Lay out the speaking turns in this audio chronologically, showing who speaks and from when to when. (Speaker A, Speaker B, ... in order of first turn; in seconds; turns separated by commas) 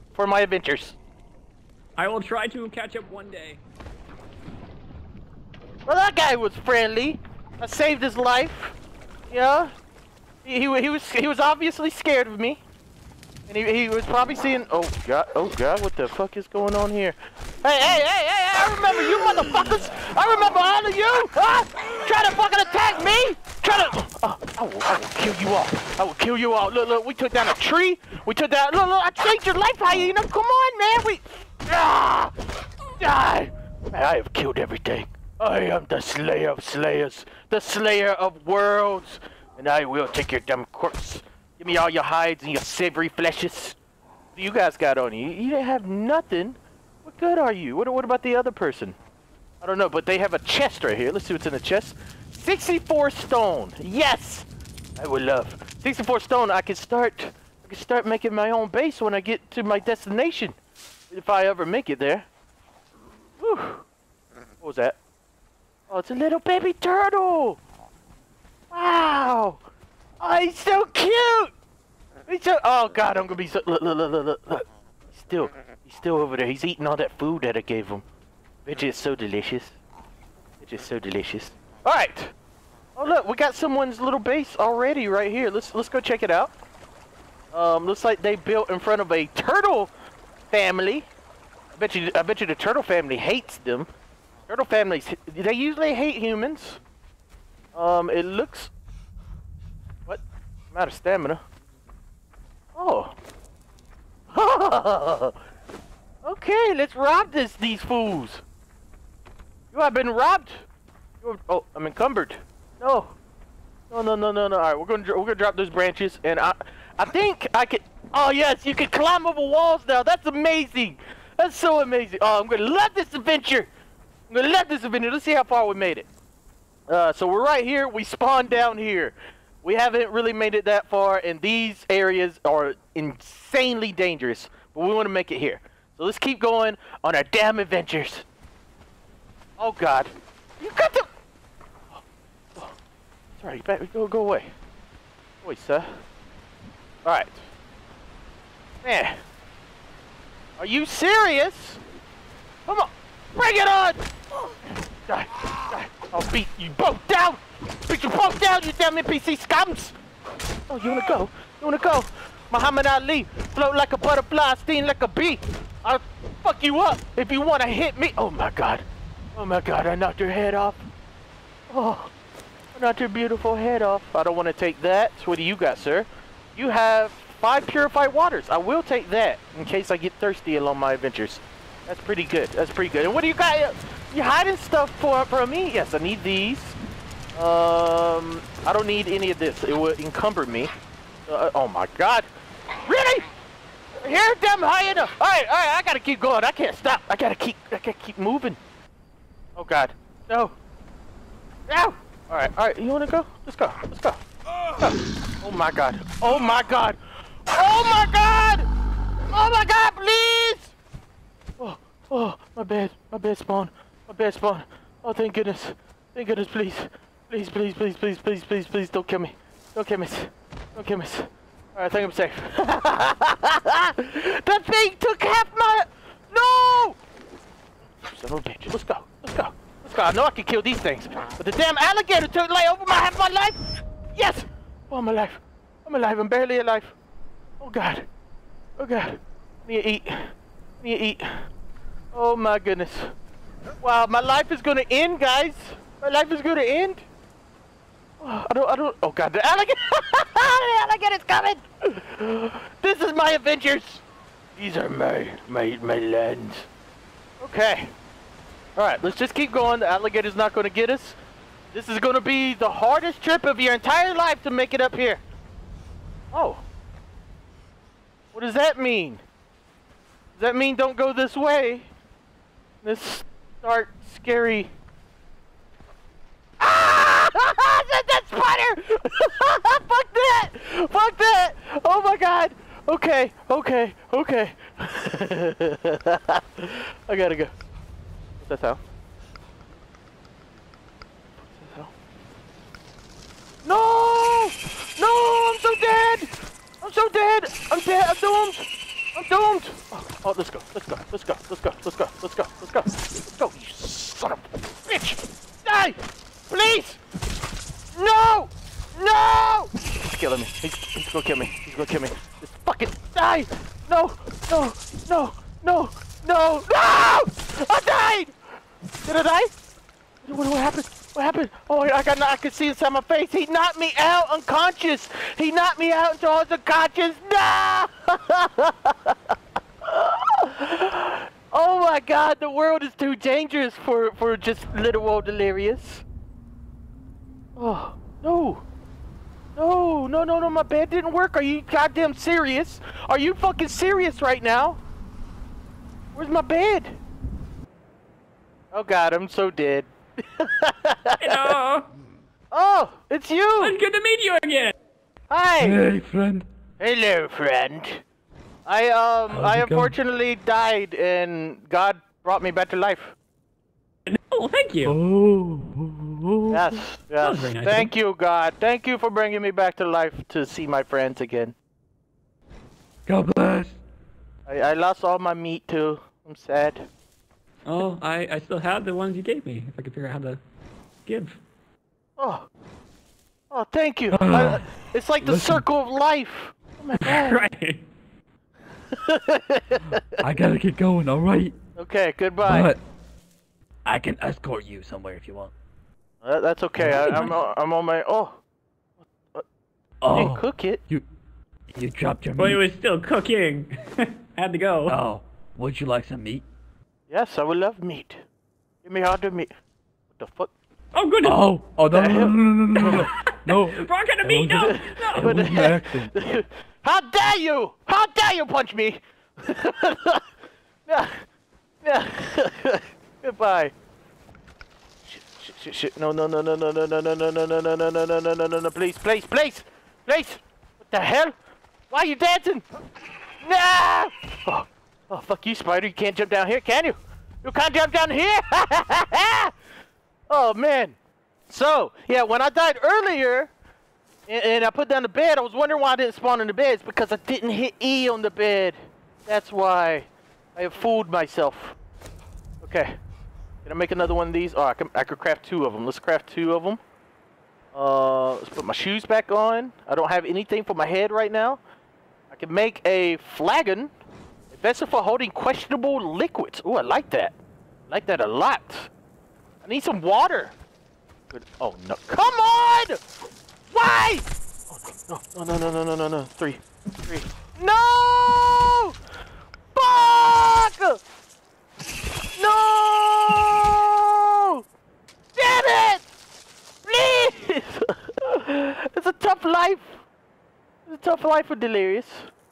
Speaker A: 0.1-1.0, Speaker B: 2.0-3.6, Speaker A: 5.9-8.8, Speaker A: 9.3-9.7, Speaker A: 10.4-12.6, Speaker A: 13.5-32.3, Speaker A: 33.0-43.8, Speaker A: 44.4-49.0, Speaker A: 49.6-60.6, Speaker A: 61.1-62.3, Speaker A: 63.4-63.9, Speaker A: 64.6-65.0, Speaker A: 65.9-67.6, Speaker A: 68.7-69.6, Speaker A: 70.2-71.5, Speaker A: 72.3-78.0, Speaker A: 78.7-79.8, Speaker A: 80.6-82.3, Speaker A: 83.0-86.5, Speaker A: 87.5-89.9, Speaker A: 90.5-91.1, Speaker A: 91.8-93.9, Speaker A: 94.5-96.8, Speaker A: 97.8-98.7, Speaker A: 100.7-101.4, Speaker A: 102.8-103.2, Speaker A: 104.3-105.4, Speaker A: 106.2-108.4, Speaker A: 109.7-110.7, Speaker A: 111.2-113.2, Speaker A: 113.9-123.7, Speaker A: 124.3-126.1, Speaker A: 126.9-138.3, Speaker A: 139.6-141.1, Speaker A: 143.4-144.5, Speaker A: 145.4-146.0, Speaker A: 147.1-147.4, Speaker A: 148.8-149.2, Speaker A: 150.6-151.8, Speaker A: 152.7-154.1, Speaker A: 155.1-159.9, Speaker A: 160.7-170.9, Speaker A: 171.7-172.1, Speaker A: 172.7-186.8, Speaker A: 187.3-190.7, Speaker A: 191.3-192.3, Speaker A: 192.8-193.3, Speaker A: 194.0-198.6, Speaker A: 199.6-200.6, Speaker A: 201.7-204.2, Speaker A: 204.8-208.7, Speaker A: 209.3-210.7, Speaker A: 211.6-227.0, Speaker A: 228.0-233.6, Speaker A: 234.2-236.9, Speaker A: 237.6-238.1, Speaker A: 238.8-241.4, Speaker A: 242.1-243.1, Speaker A: 243.8-247.1, Speaker A: 248.2-254.0, Speaker A: 254.6-256.7, Speaker A: 257.4-257.9, Speaker A: 258.8-261.2, Speaker A: 261.7-265.2, Speaker A: 266.3-266.6, Speaker A: 268.3-269.2, Speaker A: 270.4-271.9, Speaker A: 272.8-274.7, Speaker A: 276.6-287.5, Speaker A: 288.4-288.8, Speaker A: 291.5-291.9, Speaker A: 293.6-296.3, Speaker A: 296.8-306.0, Speaker A: 306.5-307.0, Speaker A: 307.9-318.3, Speaker A: 319.1-319.5, Speaker A: 320.2-329.2, Speaker A: 329.9-336.0, Speaker A: 337.6-338.6, Speaker A: 339.6-344.8, Speaker A: 346.1-347.0, Speaker A: 348.7-351.5, Speaker B: 351.2-351.9, Speaker A: 352.5-353.8, Speaker B: 353.6-354.7, Speaker A: 355.3-355.8, Speaker C: 355.6-356.5, Speaker A: 356.8-358.0, Speaker A: 358.7-363.1, Speaker C: 359.3-359.9, Speaker B: 364.1-365.0, Speaker C: 364.8-366.6, Speaker A: 366.5-371.6, Speaker B: 367.2-367.9, Speaker C: 373.1-373.8, Speaker A: 374.5-376.9, Speaker B: 377.7-380.4, Speaker B: 381.1-381.4, Speaker A: 382.2-382.5, Speaker A: 383.5-387.4, Speaker C: 384.1-384.6, Speaker C: 385.2-385.6, Speaker B: 387.1-387.8, Speaker A: 388.9-390.0, Speaker C: 390.2-391.6, Speaker A: 391.8-392.7, Speaker C: 392.4-392.8, Speaker C: 393.9-395.5, Speaker A: 396.2-398.4, Speaker C: 396.8-397.4, Speaker C: 400.0-401.1, Speaker A: 400.1-400.8, Speaker C: 401.8-402.6, Speaker B: 402.4-403.8, Speaker B: 404.3-405.0, Speaker C: 404.9-406.4, Speaker A: 407.1-408.2, Speaker A: 408.8-409.5, Speaker A: 410.2-410.5, Speaker B: 410.9-411.4, Speaker C: 411.2-416.1, Speaker A: 411.9-412.9, Speaker B: 412.8-415.4, Speaker A: 414.6-420.2, Speaker A: 420.9-421.2, Speaker A: 421.8-423.7, Speaker A: 425.1-431.4, Speaker A: 431.9-432.6, Speaker A: 433.4-439.5, Speaker A: 440.3-441.0, Speaker A: 441.5-443.5, Speaker A: 444.3-451.8, Speaker A: 452.6-453.0, Speaker A: 453.6-456.8, Speaker A: 457.7-461.6, Speaker A: 462.3-463.9, Speaker A: 464.5-467.4, Speaker A: 467.9-468.9, Speaker A: 469.6-470.6, Speaker A: 471.3-473.0, Speaker A: 473.7-478.9, Speaker A: 479.8-481.0, Speaker A: 482.4-484.6, Speaker A: 485.4-486.1, Speaker A: 486.9-490.0, Speaker A: 490.9-492.3